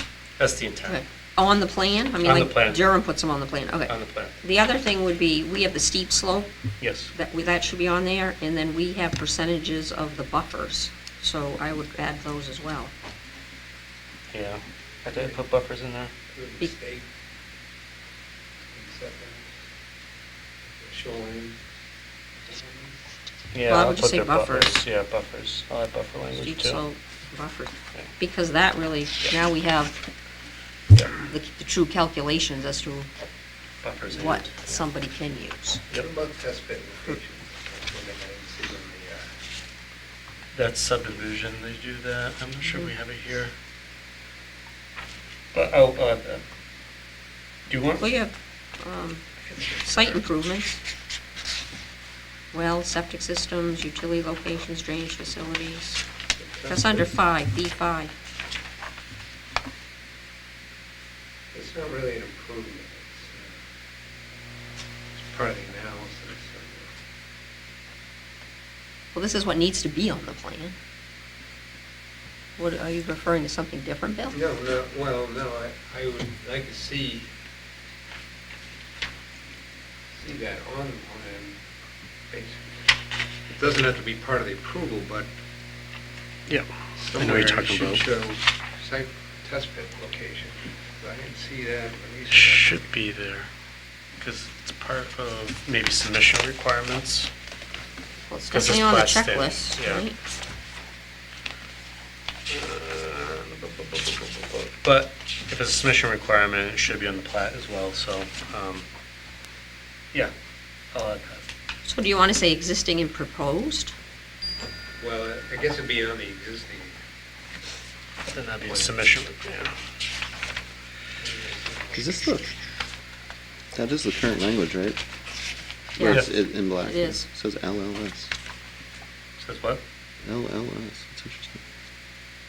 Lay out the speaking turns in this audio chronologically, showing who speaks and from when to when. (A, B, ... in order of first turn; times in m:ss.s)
0:00.4-0:01.0 A
0:00.8-0:06.5 B
0:02.2-0:02.9 A
0:03.9-0:04.4 A
0:06.8-0:07.1 A
0:07.1-0:12.9 B
0:14.3-0:16.1 A
0:16.3-0:17.1 C
0:18.7-0:19.5 C
0:20.8-0:21.6 C
0:22.4-0:23.0 C
0:23.5-0:26.8 A
0:23.7-0:24.8 B
0:26.3-0:30.0 B
0:30.9-0:31.3 A
0:31.2-0:33.1 B
0:33.8-0:34.8 A
0:34.1-0:35.9 B
0:36.0-0:39.3 C
0:40.5-0:43.5 A
0:45.5-0:46.4 A
0:47.7-0:48.0 A
0:48.0-0:50.8 B
0:52.5-0:56.0 B
0:56.4-0:57.0 C
0:56.7-0:58.1 B
1:01.5-1:03.5 C
1:05.1-1:06.9 C
1:09.1-1:10.7 B
1:12.6-1:14.4 B
1:14.3-1:17.3 C
1:20.2-1:21.6 C
1:22.3-1:22.8 C
1:23.5-1:25.3 C
1:26.5-1:28.0 A
1:27.0-1:32.7 C
1:32.3-1:33.5 A
1:34.2-1:37.3 A
1:38.3-1:40.2 B
1:38.5-1:40.0 A
1:42.5-1:48.8 A
1:50.9-1:51.4 A
1:51.8-1:53.9 B
1:55.0-1:57.0 C
1:58.3-1:59.7 A
2:01.2-2:02.1 C
2:01.9-2:02.5 D
2:03.7-2:05.0 D
2:06.0-2:07.2 B
2:06.0-2:08.3 D
2:06.0-2:06.3 A
2:09.4-2:09.8 A
2:10.2-2:11.6 D